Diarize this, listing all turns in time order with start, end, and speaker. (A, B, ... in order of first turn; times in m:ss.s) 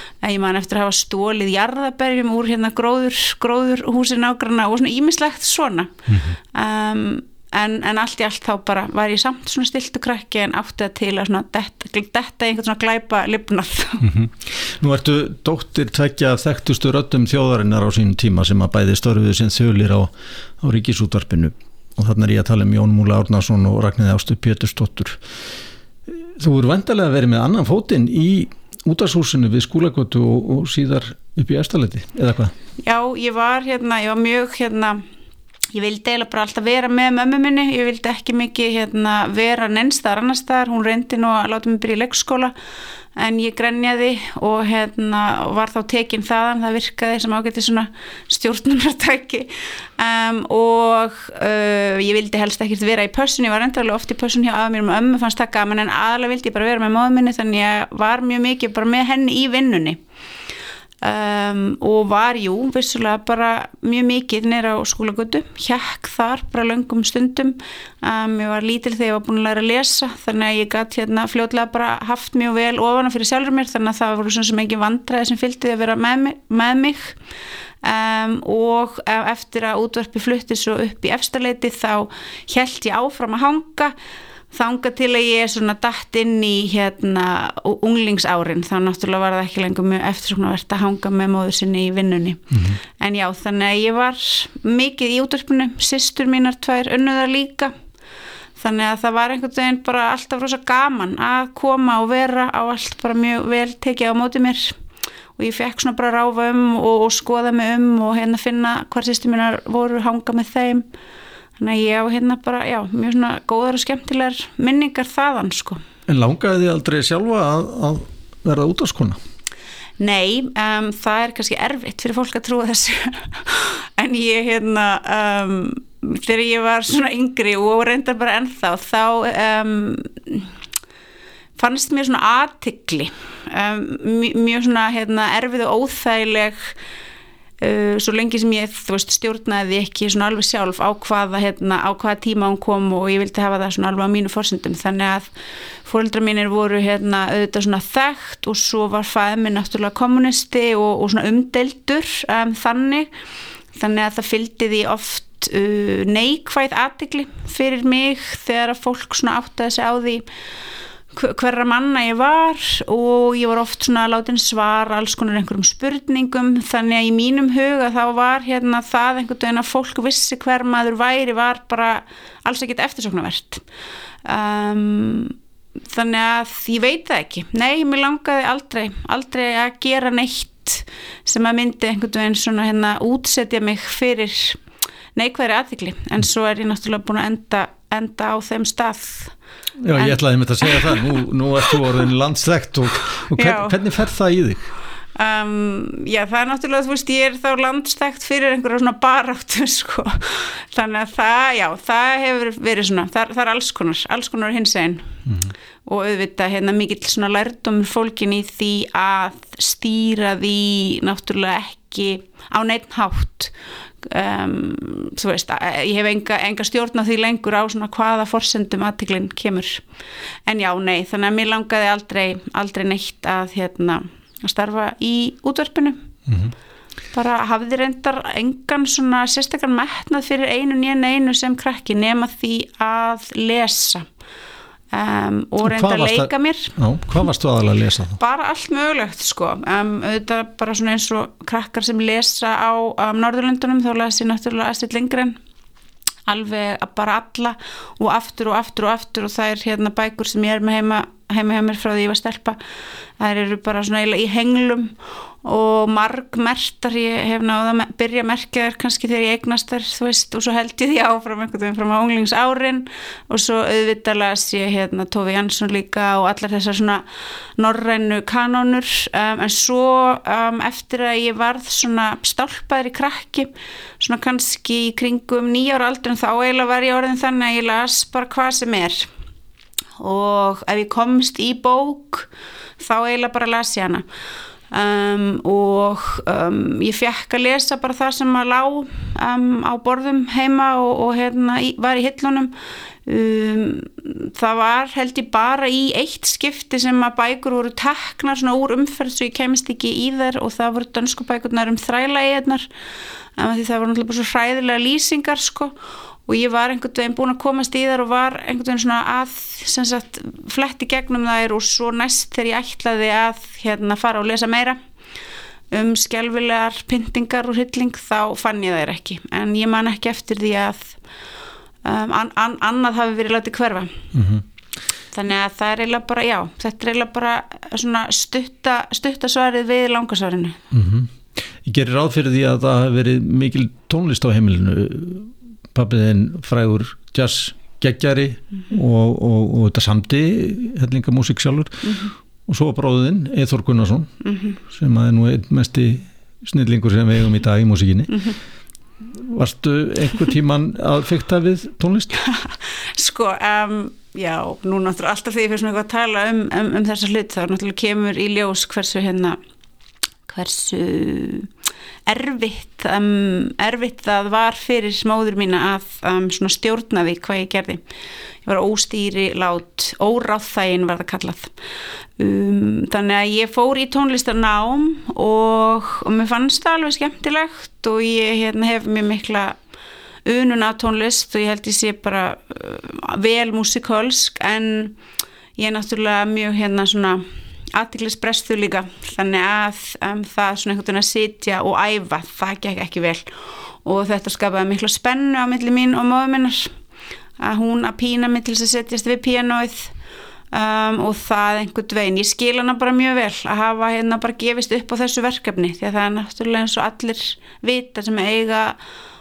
0:00.2-0:06.0 A
0:06.5-0:14.1 A
0:14.0-0:25.2 B
0:26.1-0:32.5 B
0:32.8-0:35.0 A
0:35.7-0:42.5 A
0:43.2-1:00.0 A
1:01.0-1:17.2 A
1:17.8-1:24.0 A
1:24.5-1:37.7 A
1:32.5-1:32.8 B
1:38.6-1:44.8 A
1:45.4-1:50.9 A
1:51.6-1:55.8 A
1:56.1-1:59.2 B
2:00.0-2:10.5 A
2:11.6-2:16.8 A
2:17.6-2:25.3 A
2:25.8-2:33.1 A
2:33.8-2:40.2 A
2:41.1-2:53.6 A
2:54.2-2:55.4 A
2:55.9-3:04.6 A
3:05.2-3:09.3 A
3:09.8-3:14.7 B
3:09.9-3:12.0 A
3:13.3-3:13.8 A
3:15.2-3:25.2 A
3:25.3-3:25.5 B
3:25.8-3:39.8 A
3:40.5-3:46.1 A
3:46.3-3:46.5 B
3:47.1-3:54.1 A
3:54.9-3:56.8 A
3:55.6-3:58.2 B
3:58.2-4:05.4 A
4:06.3-4:12.6 A
4:13.2-4:27.0 A
4:27.6-4:39.1 A
4:40.0-4:42.3 A
4:42.8-4:44.0 A
4:44.7-4:52.5 A
4:53.0-5:02.7 A
5:03.4-5:05.8 A
5:06.3-5:14.8 A
5:15.7-5:21.0 A
5:21.8-5:24.0 A
5:24.1-5:24.4 B
5:25.1-5:30.6 A
5:30.7-5:42.0 B
5:41.8-5:42.1 A
5:42.5-5:48.3 B
5:44.2-5:44.6 A
5:49.1-5:52.2 B
5:52.2-5:59.4 A
6:00.3-6:01.5 A
6:02.1-6:07.8 A
6:08.4-6:11.5 A
6:12.2-6:19.6 A
6:20.2-6:25.0 A
6:25.6-6:36.7 A
6:37.4-6:39.9 A
6:40.5-6:48.8 A